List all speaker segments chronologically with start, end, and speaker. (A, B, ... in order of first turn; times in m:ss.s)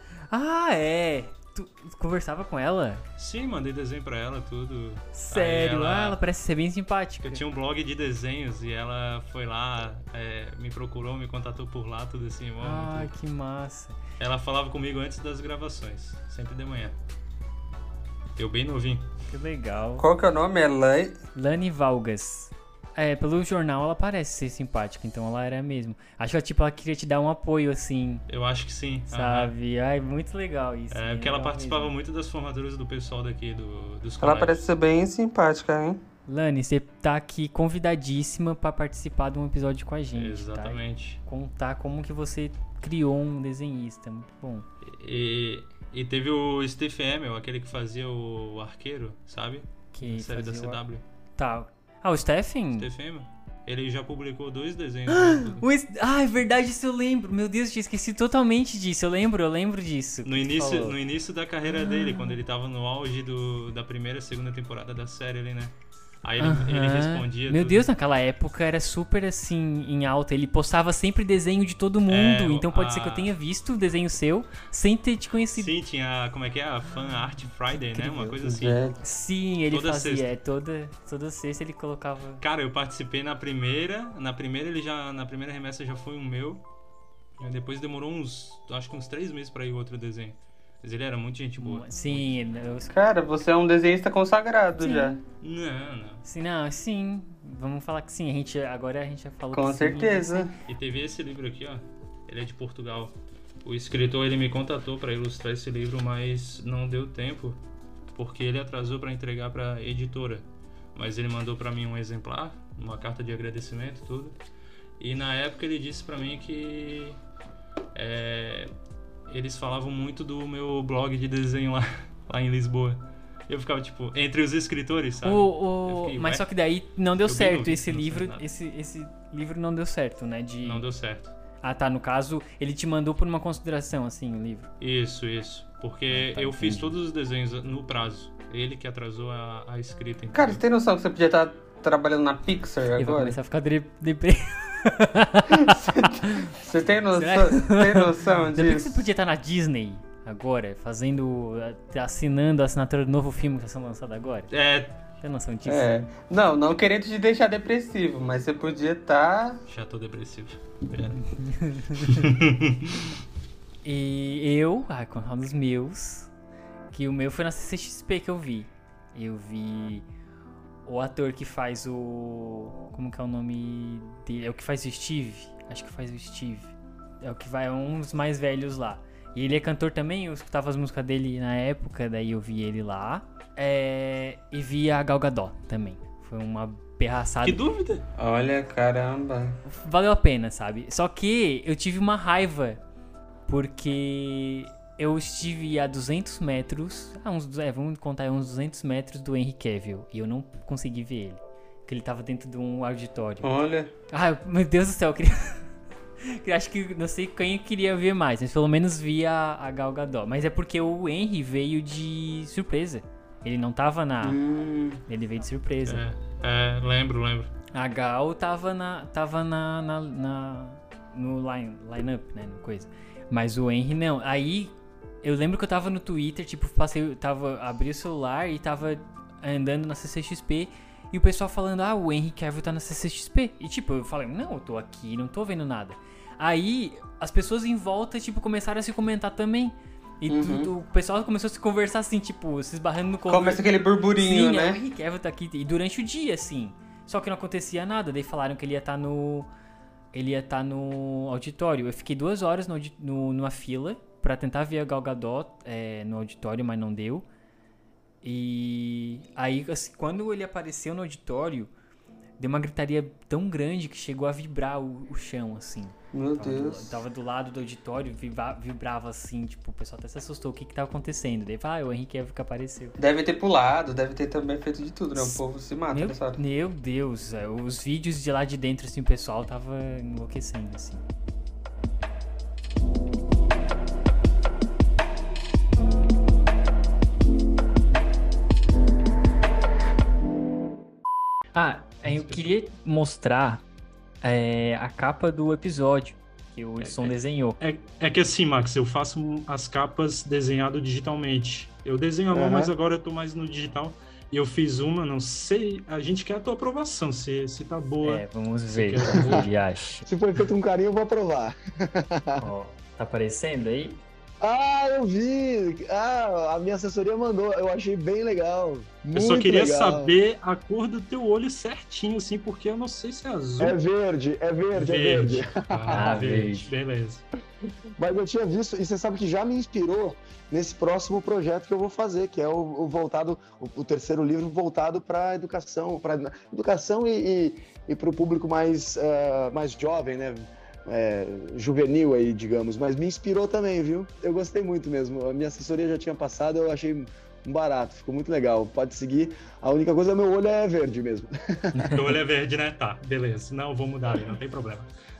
0:00.3-0:03.0 A
0:03.2-0:06.2 B
0:05.1-0:07.4 A
0:07.2-0:13.1 B
0:12.6-0:14.0 A
0:14.2-0:16.9 B
0:18.4-0:19.0 B
0:19.3-0:20.0 A
0:20.0-0:21.2 C
0:21.3-0:28.2 A
0:28.3-0:29.5 B
0:29.1-0:31.9 A
0:30.9-0:34.6 B
0:34.2-0:36.0 C
0:36.3-0:44.6 A
0:40.1-0:41.2 B
0:44.8-0:51.0 B
0:49.9-0:50.8 A
0:51.4-0:52.9 A
0:52.8-0:55.6 B
0:55.1-1:01.0 A
1:00.2-1:07.8 B
1:06.4-1:15.7 A
1:12.1-1:13.3 B
1:15.5-1:18.8 B
1:17.8-1:18.4 A
1:18.4-1:19.0 C
1:19.0-1:22.4 A
1:19.7-1:20.3 B
1:22.4-1:26.6 B
1:27.4-1:32.1 B
1:31.6-1:32.9 A
1:32.9-1:35.2 C
1:34.8-1:35.2 A
1:35.4-1:36.2 B
1:36.2-1:40.5 A
1:39.5-1:40.5 C
1:40.7-1:54.4 B
1:55.0-1:57.2 B
1:57.9-1:58.7 B
1:59.3-2:06.5 B
2:05.2-2:10.8 A
2:07.2-2:08.5 B
2:10.6-2:11.3 B
2:11.6-2:14.7 A
2:14.8-2:20.6 B
2:16.1-2:17.0 A
2:20.3-2:23.4 C
2:23.0-2:25.7 A
2:25.6-2:29.0 C
2:27.1-2:34.5 A
2:34.5-2:35.0 B
2:35.2-2:35.9 A
2:35.6-2:39.6 C
2:39.7-2:41.2 B
2:41.2-2:42.3 A
2:42.0-2:43.0 B
2:43.8-2:46.3 A
2:46.9-2:50.0 A
2:50.8-3:07.6 A
3:07.4-3:08.0 B
3:08.2-3:09.6 C
3:09.6-3:12.8 A
3:13.5-3:23.5 A
3:23.4-3:23.9 C
3:24.1-3:25.6 A
3:26.2-3:34.4 A
3:34.2-3:35.0 C
3:35.1-3:36.0 A
3:35.8-3:37.5 B
3:37.7-4:03.6 A
4:00.3-4:00.7 C
4:03.3-4:04.8 C
4:04.2-4:09.5 A
4:10.1-4:17.2 A
4:18.2-4:21.7 A
4:22.4-4:33.0 A
4:26.1-4:27.0 C
4:33.0-4:36.4 C
4:35.2-4:35.4 A
4:35.9-4:41.0 A
4:51.5-4:53.6 A
4:52.1-4:52.4 B
4:54.2-4:57.6 A
4:56.8-5:09.4 B
5:02.3-5:02.7 D
5:08.0-5:10.0 A
5:10.0-5:12.4 D
5:12.4-5:14.0 A
5:14.4-5:20.1 D
5:19.1-5:23.7 B
5:23.6-5:26.1 D
5:24.7-5:27.2 B
5:25.9-5:26.7 A
5:28.0-5:51.9 D
5:51.9-5:54.9 B